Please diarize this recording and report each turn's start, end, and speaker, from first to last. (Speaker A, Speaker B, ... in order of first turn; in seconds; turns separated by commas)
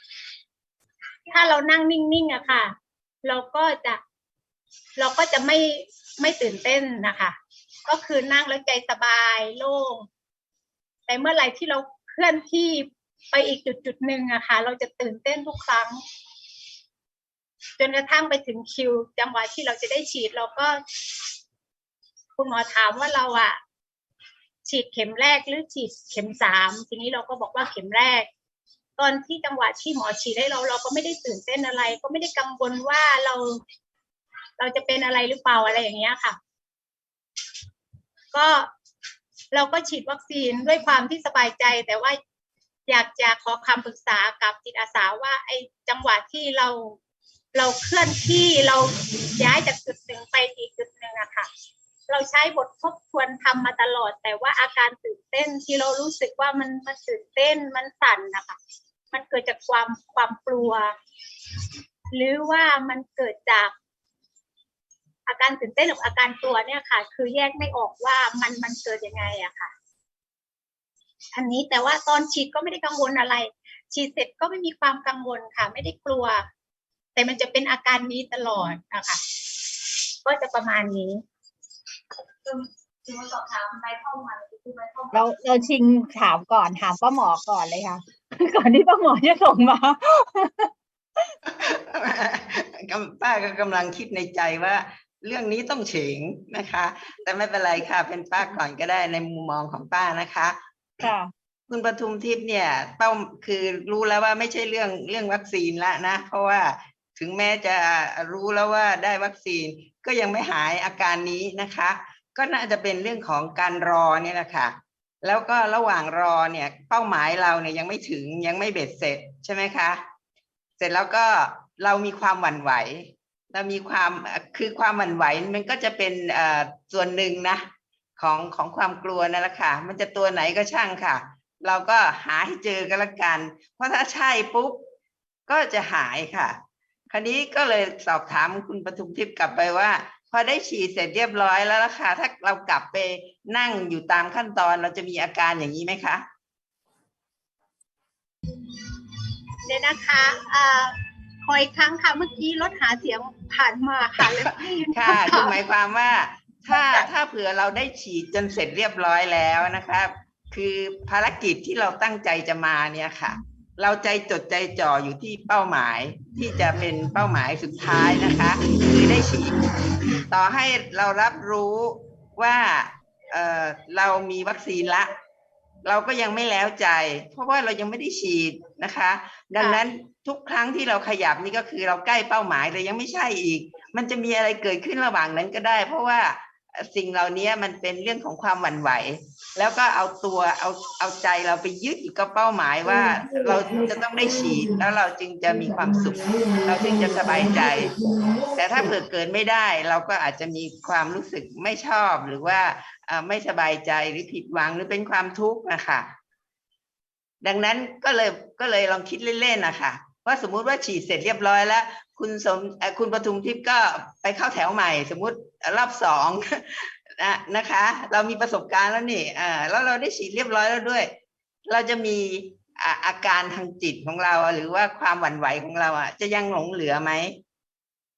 Speaker A: 1.3-4.0, Speaker A: 5.0-10.1, Speaker A: 11.1-16.0, Speaker A: 17.8-20.8, Speaker A: 22.4-23.6, Speaker A: 24.6-28.3, Speaker A: 29.0-33.6, Speaker A: 34.6-36.4, Speaker A: 38.3-38.7, Speaker A: 39.5-42.2, Speaker A: 42.9-47.0, Speaker A: 47.5-51.5, Speaker A: 52.1-58.6, Speaker A: 59.1-60.9, Speaker A: 62.1-63.7, Speaker A: 65.3-69.7, Speaker A: 71.3-76.4, Speaker A: 77.1-79.2, Speaker A: 80.2-81.2, Speaker A: 82.5-85.2, Speaker B: 85.1-90.7, Speaker C: 91.5-101.1, Speaker B: 101.0-101.3, Speaker C: 101.7-120.0, Speaker C: 120.8-127.6, Speaker C: 128.2-134.8, Speaker C: 135.5-136.6, Speaker C: 137.1-146.2, Speaker A: 149.6-150.9, Speaker A: 151.4-155.6, Speaker C: 154.9-169.6, Speaker A: 156.7-157.1, Speaker C: 170.3-175.1, Speaker C: 175.8-198.0, Speaker C: 198.5-206.1, Speaker C: 207.4-221.1, Speaker C: 221.7-227.4